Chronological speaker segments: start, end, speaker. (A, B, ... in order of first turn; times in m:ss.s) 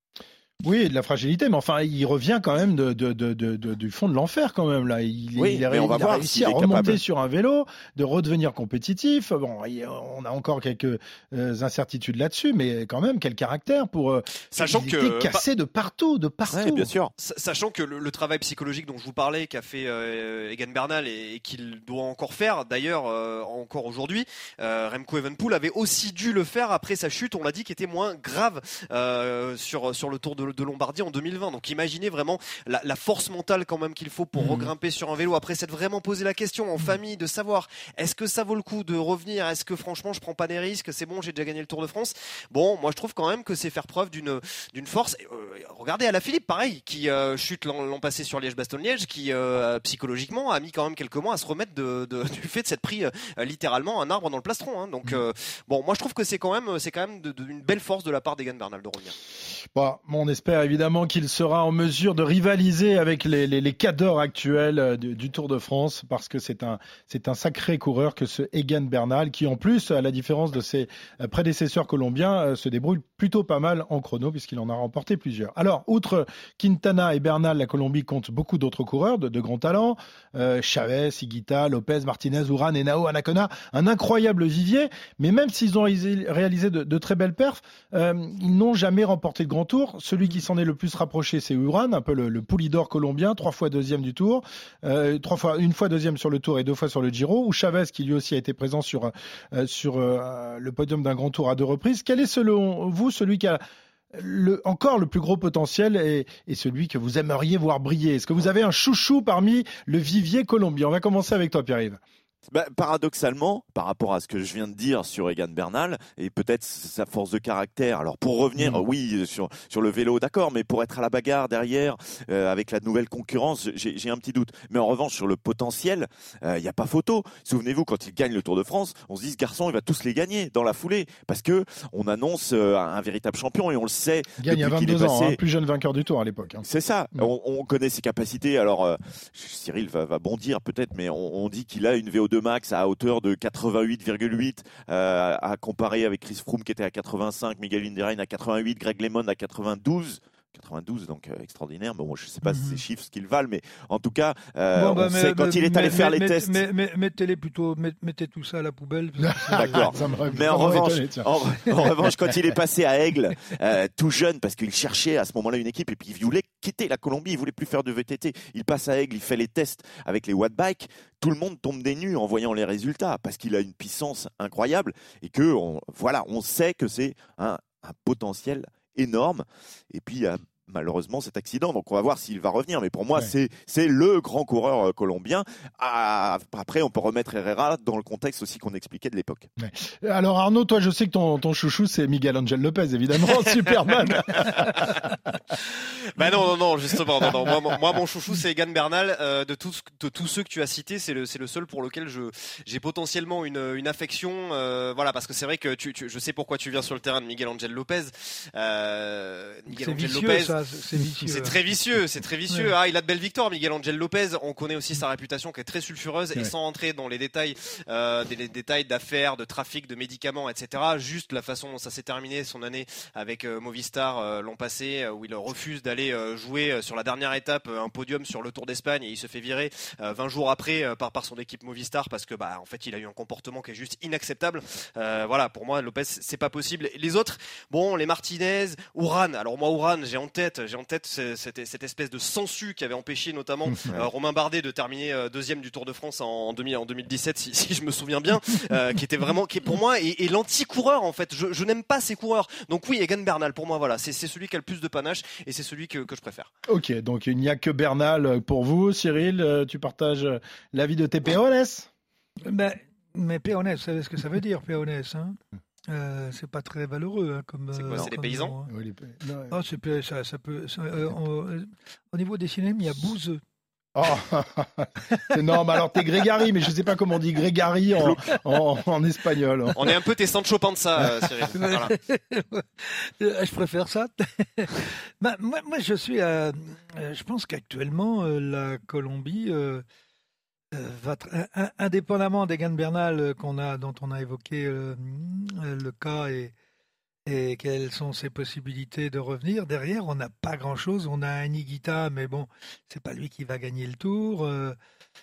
0:00.6-0:16.9 A
0:05.4-0:07.0 B
0:14.5-0:15.4 C
0:16.5-0:17.1 B
0:17.2-0:59.2 C
0:34.4-0:34.7 A
0:59.7-1:43.6 A
1:44.1-1:52.0 A
1:52.5-2:15.4 B
1:58.6-1:58.8 A
2:14.4-2:17.3 A
2:16.6-2:36.6 B
2:32.4-2:32.8 D
2:34.7-2:40.7 D
2:39.2-2:41.9 A
2:39.5-3:09.5 B
3:09.6-3:15.1 A
3:14.3-3:15.0 C
3:16.2-3:30.5 C
3:29.7-3:31.6 D
3:31.2-4:16.5 C
4:16.7-4:21.9 A
4:22.4-4:25.4 D
4:25.9-4:28.7 D
4:27.7-4:28.5 C
4:28.7-4:29.6 A
4:29.5-4:33.4 D
4:33.9-4:39.9 A
4:39.8-4:41.9 C
4:41.5-4:49.8 D
4:50.7-4:56.5 D
4:57.3-5:04.8 D